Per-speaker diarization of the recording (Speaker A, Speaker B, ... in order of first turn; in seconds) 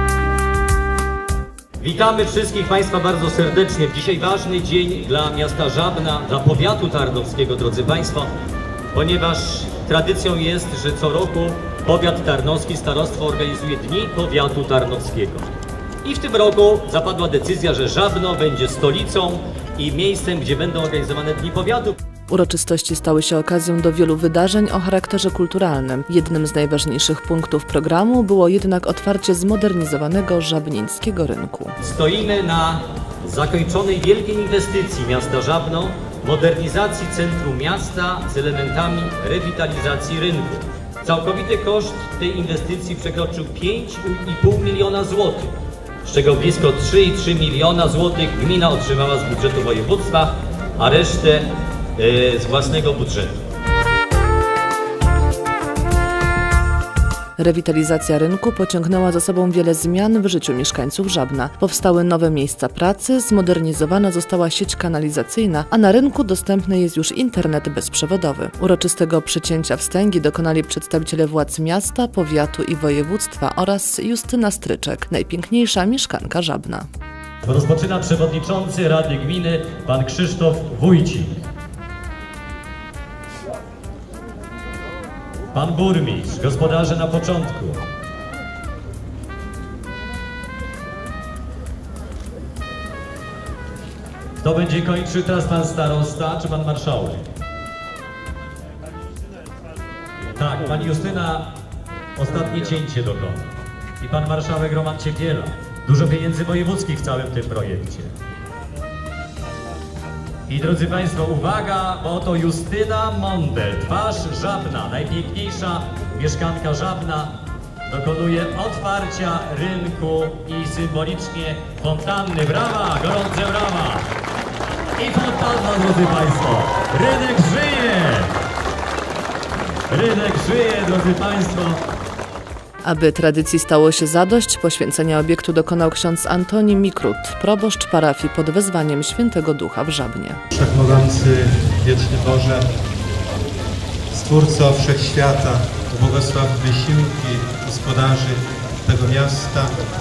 Speaker A: 1.8-8.3, 8.9-22.0, 31.8-53.4, 77.4-81.4, 85.5-87.9, 94.4-97.3, 100.3-101.5, 102.2-103.5, 104.0-108.1, 110.5-124.1, 125.0-128.3, 129.9-131.8
Speaker B: 22.3-31.8, 57.4-76.9, 132.8-140.4
Speaker C: 140.5-142.7, 144.1-149.8